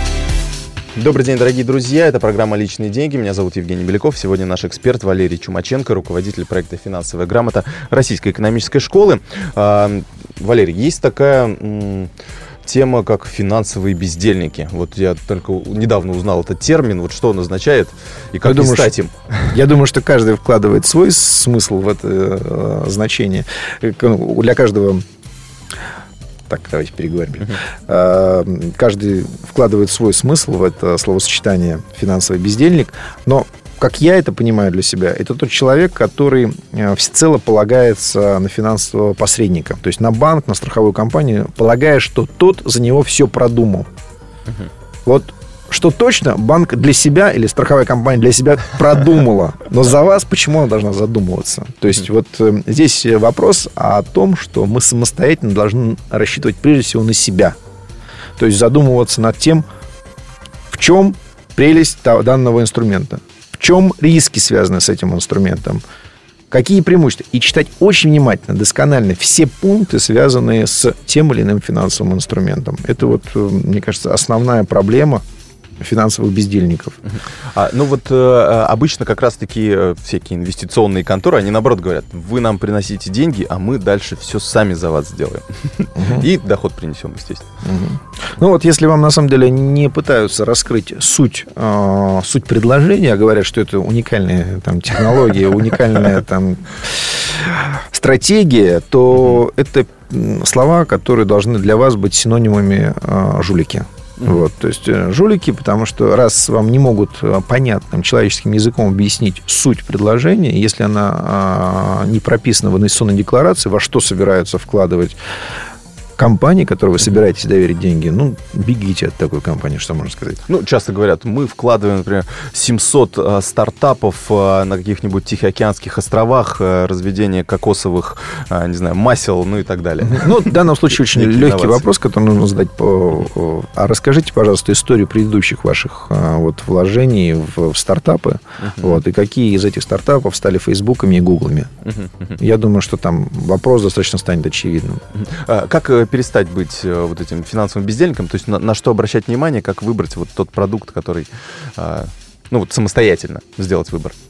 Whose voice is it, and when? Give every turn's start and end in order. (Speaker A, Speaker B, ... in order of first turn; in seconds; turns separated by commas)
Speaker A: 0.9-12.1, Speaker A: 12.6-19.6, Speaker B: 18.4-18.9, Speaker B: 19.5-25.0, Speaker B: 26.5-43.9, Speaker B: 45.0-57.5, Speaker B: 58.4-59.6, Speaker B: 60.7-65.8, Speaker B: 66.5-75.2, Speaker B: 75.8-77.0, Speaker A: 77.1-87.5, Speaker B: 86.0-86.2, Speaker B: 87.6-115.2, Speaker B: 116.2-120.4, Speaker A: 120.5-131.9, Speaker B: 130.0-141.7, Speaker A: 138.6-139.0, Speaker A: 141.8-142.4, Speaker B: 142.4-145.0, Speaker A: 145.1-154.2